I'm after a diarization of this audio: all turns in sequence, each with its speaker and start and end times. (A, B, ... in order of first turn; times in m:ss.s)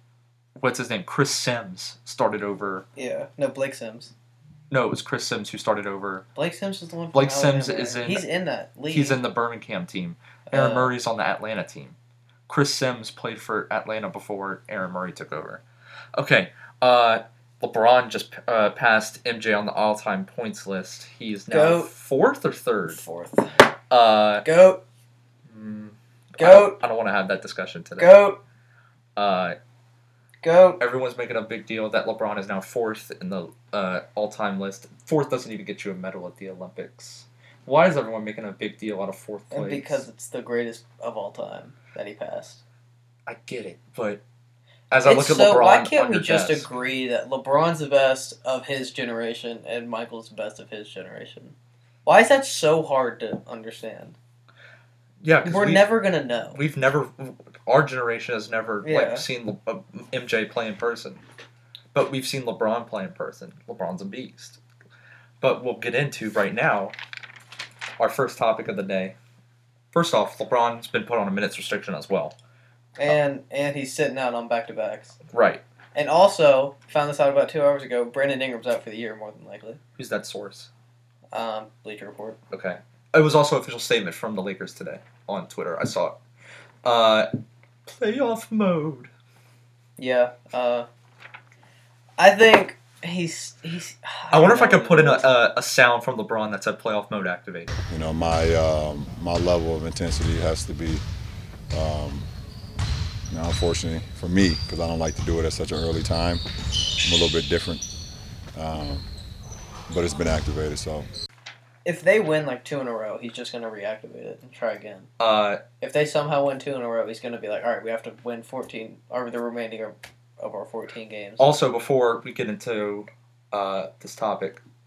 0:00.6-0:02.9 A
0:03.0-0:04.1 B
0:04.7-0:06.2 A
0:06.4-0:09.2 B
0:07.1-0:08.2 A
0:08.9-0:12.0 A
0:10.5-0:10.9 B
0:12.5-0:15.6 A
0:16.2-0:23.0 A
0:21.5-0:21.9 B
0:22.9-0:23.7 B
0:23.9-0:24.5 A
0:24.4-0:24.8 B
0:25.5-0:28.2 A
0:26.4-0:26.8 B
0:28.0-0:28.4 B
0:29.2-0:29.6 A
0:30.4-0:30.8 B
0:30.8-0:40.0 A
0:39.5-0:42.6 B
0:43.2-0:44.2 A
0:44.9-0:46.7 A
0:45.0-0:51.6 B
0:52.1-0:54.2 B
0:55.2-0:55.9 A
0:55.4-0:56.6 B
0:56.5-1:01.2 A
0:58.8-0:59.2 B
1:01.9-1:04.6 A
1:05.4-1:06.9 A
1:08.0-1:09.2 A
1:09.9-1:12.4 A
1:13.0-1:15.2 B
1:15.3-1:15.6 A
1:15.9-1:19.8 B
1:20.0-1:20.7 A
1:21.3-1:22.4 B
1:22.5-1:26.2 A
1:26.8-1:27.3 A
1:27.9-1:29.1 A
1:30.0-1:30.9 B
1:32.2-1:35.2 B
1:34.3-1:37.8 A
1:37.9-1:41.0 C
1:41.7-1:42.3 C
1:43.3-1:46.4 C
1:47.0-1:47.8 C
1:48.6-1:49.1 C
1:49.9-1:51.1 C
1:51.8-1:55.1 B
1:55.2-1:55.6 A
1:55.8-2:01.5 B
2:01.4-2:04.6 A